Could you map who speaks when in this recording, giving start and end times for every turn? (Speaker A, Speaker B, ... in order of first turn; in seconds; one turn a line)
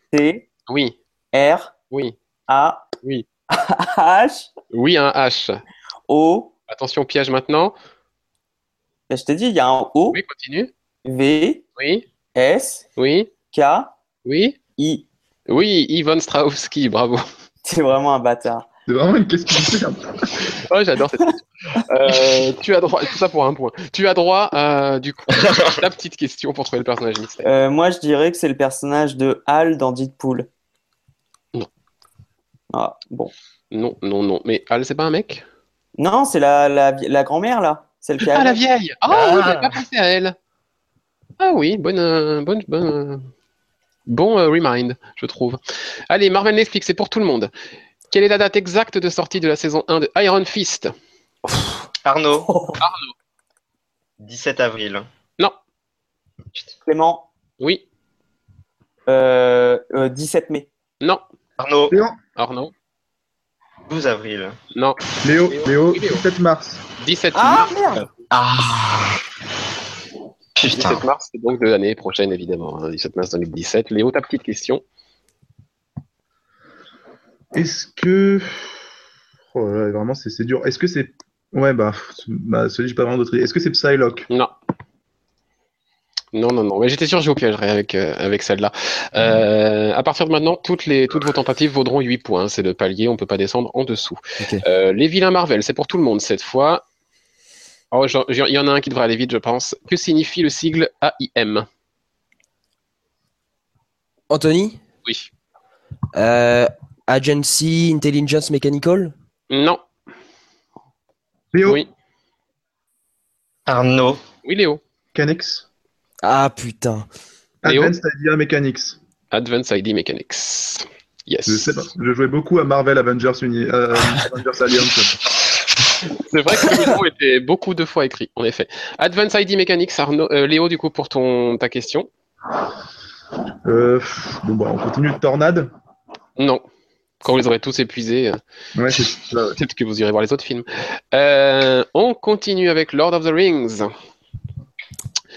Speaker A: 0.1-0.5
Speaker B: 0.7-0.9
Speaker A: 1.3-1.7
Speaker A: 2.5-2.9
Speaker A: 3.5-4.5
Speaker B: 4.7-5.6
Speaker A: 6.1-6.5
Speaker B: 6.7-7.7
Speaker A: 9.1-10.2
Speaker B: 10.1-10.7
Speaker A: 11.0-11.6
Speaker B: 11.8-12.1
Speaker A: 12.3-12.8
Speaker B: 13.0-13.3
Speaker A: 13.5-13.9
Speaker B: 14.2-14.6
Speaker A: 14.8-15.1
Speaker B: 15.5-17.2
Speaker A: 17.6-18.7
Speaker C: 18.9-20.6
Speaker B: 20.5-27.5
Speaker D: 25.3-25.8
Speaker A: 27.4-30.5
Speaker A: 32.7-33.3
Speaker B: 33.7-35.4
Speaker A: 36.0-38.6
Speaker B: 38.2-40.4
Speaker D: 39.1-39.8
Speaker B: 41.4-43.3
Speaker B: 44.1-47.5
Speaker B: 48.1-50.9
Speaker D: 52.0-52.5
Speaker A: 52.4-52.8
Speaker B: 52.8-53.1
Speaker D: 54.2-55.1
Speaker A: 56.9-57.3
Speaker A: 59.1-60.7
Speaker D: 61.6-62.0
Speaker C: 61.9-62.2
Speaker B: 62.4-62.7
Speaker D: 63.9-64.6
Speaker B: 64.7-66.2
Speaker C: 65.2-66.8
Speaker B: 67.0-68.1
Speaker A: 67.3-68.1
Speaker D: 68.3-69.2
Speaker D: 70.5-71.0
Speaker B: 70.7-74.8
Speaker C: 77.5-78.8
Speaker C: 79.5-84.3
Speaker B: 86.3-96.8
Speaker B: 97.9-101.7
Speaker E: 104.3-104.8
Speaker E: 106.1-109.1
Speaker B: 109.5-109.8
Speaker C: 111.5-111.8
Speaker D: 113.7-114.2
Speaker B: 114.4-114.8
Speaker C: 115.1-115.7
Speaker E: 116.2-117.1
Speaker C: 117.6-119.0
Speaker B: 117.7-117.9
Speaker B: 119.3-121.9
Speaker C: 121.5-125.2
Speaker B: 126.2-132.1
Speaker C: 133.6-135.7
Speaker B: 136.4-136.6
Speaker B: 137.2-138.4
Speaker C: 138.7-139.6
Speaker B: 139.6-143.9